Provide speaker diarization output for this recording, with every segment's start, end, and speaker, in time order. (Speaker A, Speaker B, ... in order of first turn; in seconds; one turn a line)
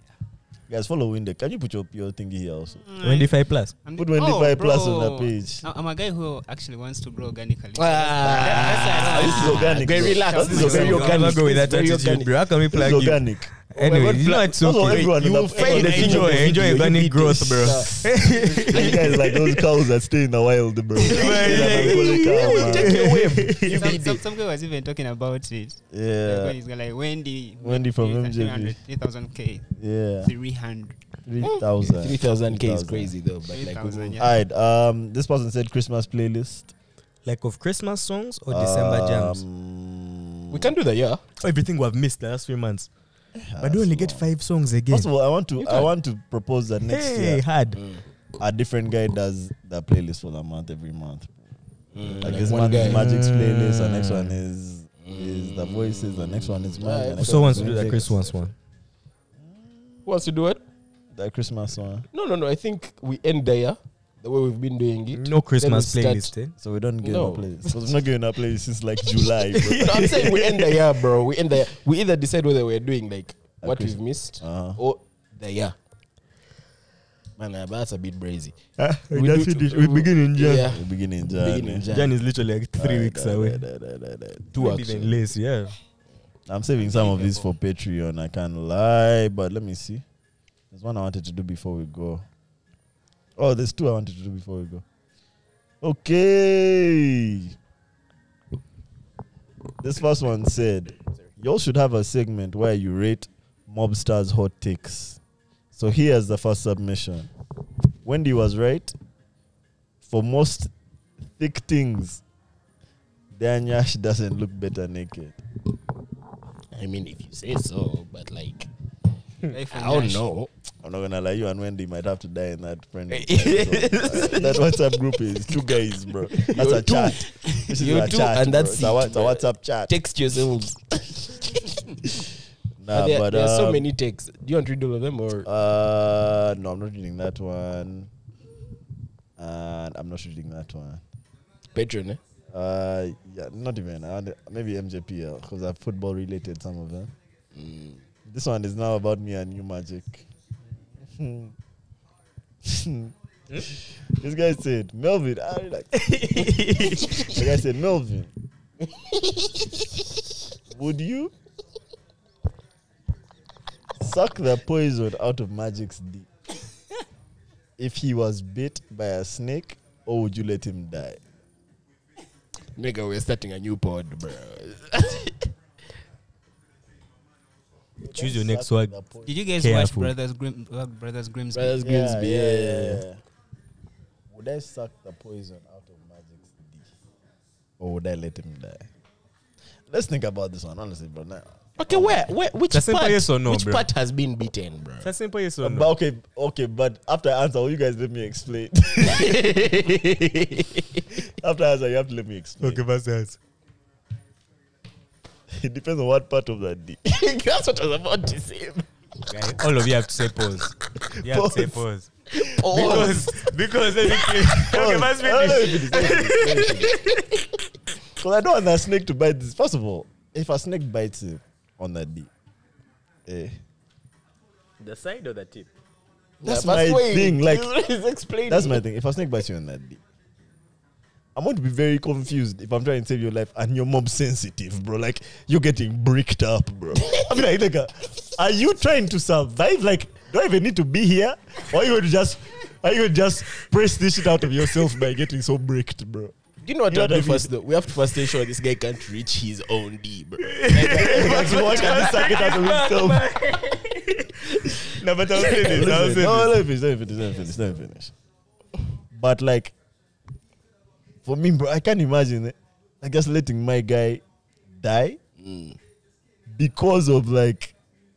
Speaker A: 0.7-2.8
Speaker B: 2.7-11.5
Speaker C: 3.0-3.7
Speaker A: 4.0-5.6
Speaker D: 7.8-13.0
Speaker A: 9.0-11.3
Speaker C: 10.6-19.6
Speaker A: 12.7-13.5
Speaker D: 13.7-19.1
Speaker A: 14.3-16.8
Speaker A: 18.7-23.0
Speaker D: 21.0-24.2
Speaker C: 21.0-24.0
Speaker B: 23.7-29.7
Speaker A: 25.9-26.5
Speaker A: 27.6-28.8
Speaker A: 29.8-30.3
Speaker B: 30.2-31.0
Speaker A: 31.2-33.1
Speaker D: 31.4-34.2
Speaker B: 33.5-34.4
Speaker A: 34.2-36.7
Speaker C: 37.2-39.4
Speaker A: 38.5-40.7
Speaker D: 40.5-41.2
Speaker C: 41.4-42.9
Speaker A: 43.4-44.3
Speaker C: 43.6-45.1
Speaker A: 44.9-47.4
Speaker D: 45.6-45.9
Speaker C: 46.9-47.8
Speaker D: 47.7-48.0
Speaker A: 48.4-51.4
Speaker D: 51.9-53.3
Speaker A: 52.0-58.4
Speaker C: 52.2-54.4
Speaker D: 55.0-58.0
Speaker C: 57.2-58.5
Speaker D: 60.0-60.6
Speaker A: 61.1-62.1
Speaker D: 62.1-66.3
Speaker C: 65.1-66.5
Speaker A: 66.6-70.2
Speaker D: 67.0-67.9
Speaker C: 69.5-70.8
Speaker D: 69.7-75.7
Speaker A: 73.6-74.8
Speaker D: 77.4-78.6
Speaker C: 78.8-80.7
Speaker D: 79.1-82.2
Speaker A: 80.6-81.9
Speaker C: 81.9-83.6
Speaker A: 82.8-84.5
Speaker D: 84.5-85.2
Speaker C: 84.5-85.7
Speaker A: 86.5-90.0
Speaker D: 86.8-87.5
Speaker A: 90.7-92.2
Speaker A: 93.4-94.8
Speaker A: 95.8-97.5
Speaker A: 99.8-105.2
Speaker A: 105.7-107.3
Speaker A: 108.0-108.9
Speaker A: 110.0-110.7
Speaker A: 111.4-112.2
Speaker A: 113.3-115.4
Speaker D: 116.7-118.7
Speaker B: 119.5-120.2
Speaker D: 119.7-120.5
Speaker A: 120.8-129.9
Speaker D: 123.1-124.7
Speaker D: 126.3-132.2
Speaker A: 132.8-133.9
Speaker D: 132.9-135.5
Speaker A: 135.4-138.1
Speaker A: 139.4-141.0
Speaker D: 141.7-142.2
Speaker A: 142.5-147.1
Speaker D: 147.5-148.0
Speaker A: 148.3-150.2
Speaker A: 151.1-151.5
Speaker A: 152.6-153.1
Speaker A: 154.1-158.3
Speaker C: 156.0-157.4
Speaker D: 159.0-159.7
Speaker A: 160.7-161.3
Speaker A: 164.0-166.3
Speaker A: 167.8-171.2
Speaker D: 172.7-175.5
Speaker C: 178.0-178.9
Speaker A: 178.0-179.5
Speaker B: 179.2-181.8
Speaker C: 179.5-180.1
Speaker D: 181.5-183.0
Speaker A: 181.8-183.2
Speaker A: 184.3-186.9
Speaker A: 187.8-188.9
Speaker A: 189.9-192.2
Speaker D: 191.8-195.1
Speaker C: 192.7-193.8
Speaker C: 195.0-195.9
Speaker A: 195.6-199.5
Speaker D: 199.0-201.1
Speaker A: 201.4-202.8
Speaker C: 202.6-203.4
Speaker A: 205.5-207.0
Speaker D: 207.0-208.9
Speaker C: 209.3-212.1
Speaker A: 211.2-211.8
Speaker D: 212.4-213.4
Speaker C: 212.7-217.5
Speaker A: 212.7-213.2
Speaker D: 214.1-214.4
Speaker A: 214.7-216.5
Speaker D: 215.9-217.0
Speaker A: 218.2-222.3
Speaker A: 223.2-223.6
Speaker C: 224.8-225.7
Speaker D: 226.4-228.8
Speaker A: 226.4-227.7
Speaker A: 228.4-230.0
Speaker A: 231.3-246.3
Speaker D: 237.0-237.4
Speaker D: 246.6-252.3
Speaker A: 246.9-247.5
Speaker C: 250.4-256.6
Speaker A: 250.9-253.2
Speaker A: 255.4-258.1
Speaker D: 255.5-255.8
Speaker A: 259.1-259.7
Speaker A: 261.2-264.2
Speaker A: 264.8-265.2
Speaker D: 265.4-265.8
Speaker A: 266.5-267.7